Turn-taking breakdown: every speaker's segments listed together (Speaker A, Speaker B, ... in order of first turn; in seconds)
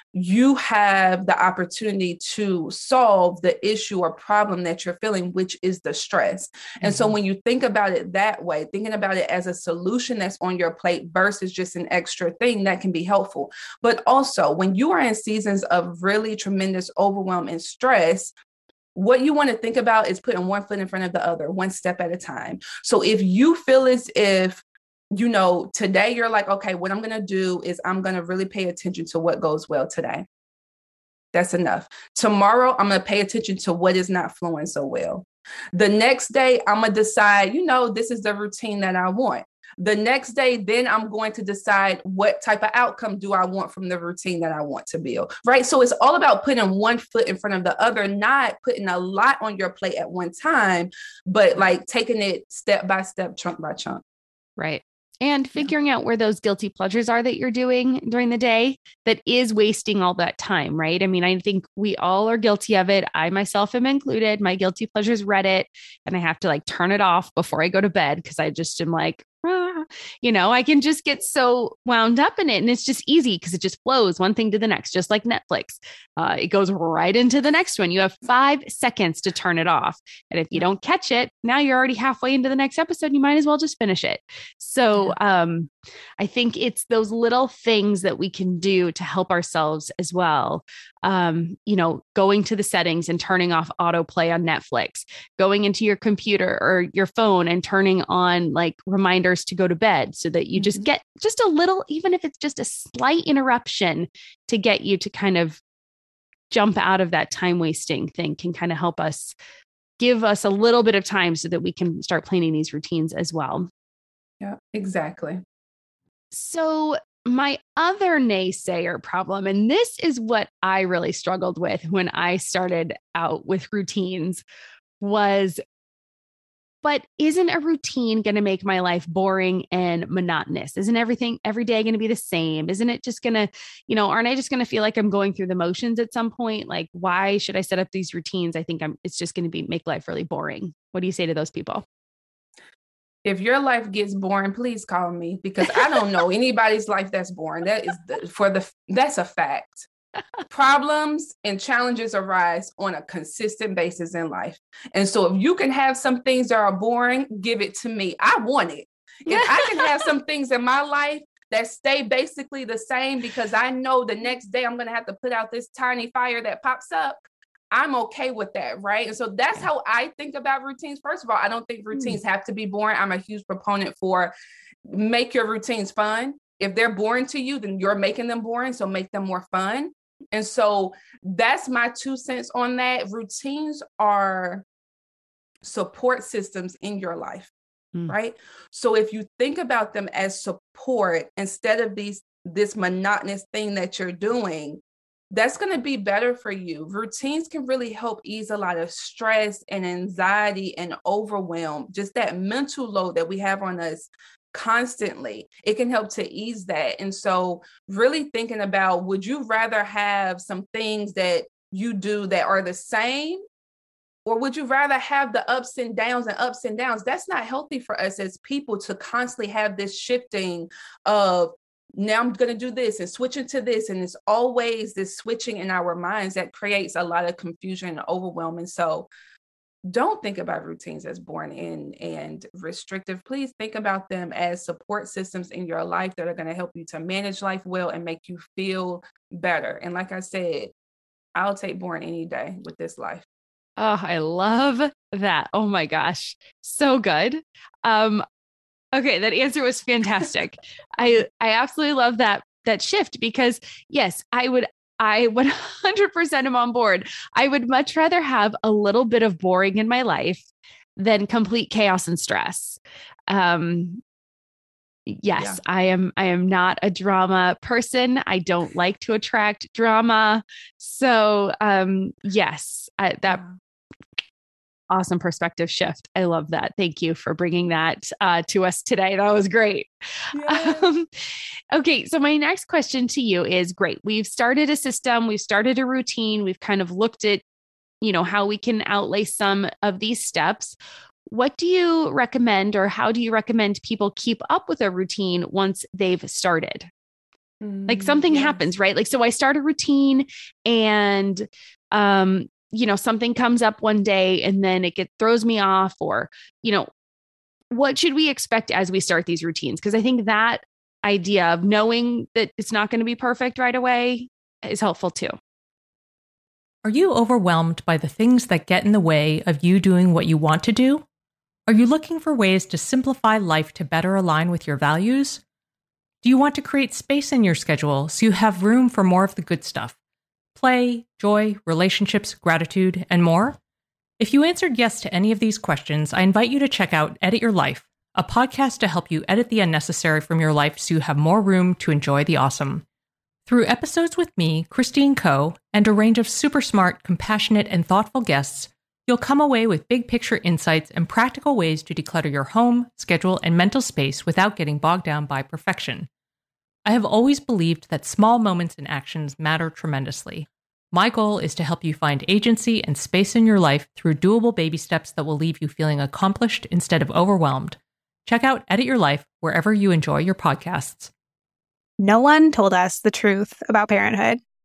Speaker A: 0.1-18.3, 18.9-24.6, 25.1-30.3, 31.3-54.0, 100.5-100.8, 114.4-115.4, 143.2-149.9, 150.5-174.3, 174.8-184.6, 185.6-187.5, 188.1-194.8, 195.3-213.4, 214.2-229.1, 229.8-240.7, 241.3-243.2, 273.2-273.5, 280.3-280.9, 297.6-298.6
Speaker B: 6.8-7.1, 54.6-105.6, 106.5-109.3, 110.0-113.7, 116.3-124.4, 125.0-125.6, 126.8-141.8, 159.3-160.0, 243.8-248.2, 248.9-260.4, 261.0-264.0, 265.1-273.4, 274.9-281.1, 281.7-287.4, 288.0-296.9, 297.9-306.9, 307.7-315.4
Speaker C: 316.8-321.0, 321.7-325.4, 326.2-329.9, 330.6-333.6, 334.2-342.8, 343.5-356.1, 356.8-371.1
Speaker D: 372.0-374.4